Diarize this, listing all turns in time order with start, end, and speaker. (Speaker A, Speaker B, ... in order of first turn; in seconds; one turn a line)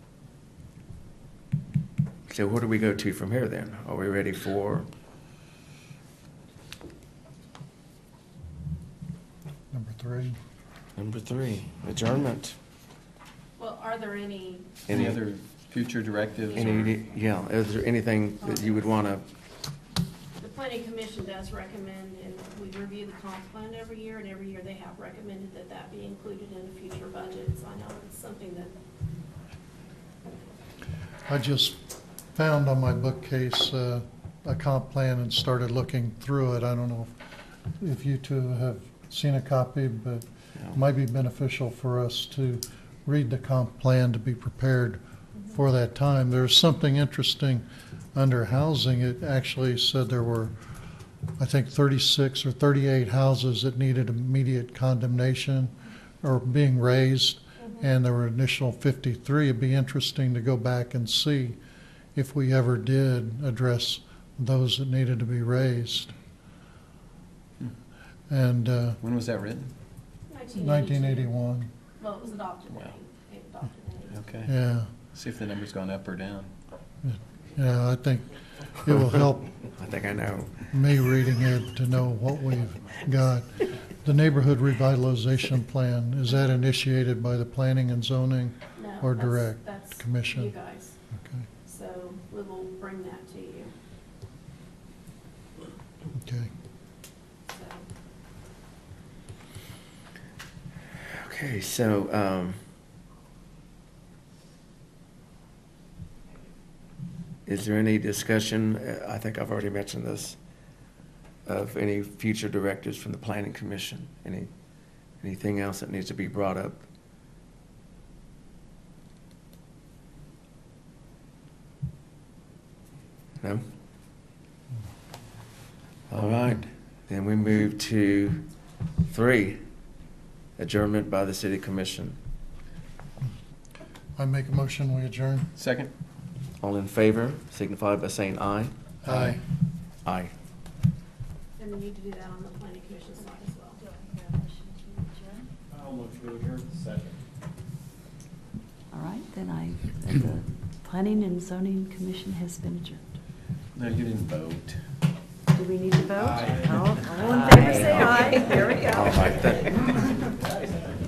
Speaker A: 2.3-4.9
Speaker B: 9.7-10.4
Speaker A: 11.0-12.6
Speaker C: 13.6-14.8
Speaker A: 14.9-15.2
Speaker D: 14.9-16.9
Speaker C: 16.5-16.9
Speaker A: 16.5-19.2
Speaker C: 18.4-18.9
Speaker C: 20.4-28.7
Speaker B: 31.2-31.8
Speaker B: 32.3-37.1
Speaker B: 37.8-45.0
Speaker B: 45.5-50.5
Speaker B: 51.4-61.6
Speaker C: 57.6-57.9
Speaker B: 62.1-66.1
Speaker B: 68.3-69.0
Speaker D: 69.0-69.7
Speaker C: 70.3-71.3
Speaker B: 70.6-71.7
Speaker C: 72.0-74.4
Speaker D: 72.7-73.0
Speaker D: 74.1-74.5
Speaker B: 74.5-74.9
Speaker D: 75.1-76.5
Speaker B: 77.0-79.5
Speaker A: 79.8-80.5
Speaker B: 80.7-90.5
Speaker C: 88.8-91.0
Speaker B: 91.1-91.5
Speaker C: 91.6-93.7
Speaker B: 96.1-96.5
Speaker C: 97.5-97.9
Speaker A: 101.1-102.6
Speaker A: 107.5-110.4
Speaker A: 111.5-114.5
Speaker A: 115.2-116.8
Speaker A: 126.1-128.4
Speaker A: 129.1-129.6
Speaker A: 130.6-132.2
Speaker B: 134.2-135.5
Speaker D: 135.6-135.9
Speaker A: 136.6-139.4
Speaker B: 139.0-139.4
Speaker A: 140.0-140.3
Speaker C: 141.6-143.8
Speaker E: 143.8-145.5
Speaker F: 145.9-146.9
Speaker E: 148.9-153.1
Speaker D: 153.7-154.8
Speaker E: 155.5-159.1
Speaker F: 156.2-157.4
Speaker C: 157.2-159.6
Speaker A: 157.7-160.0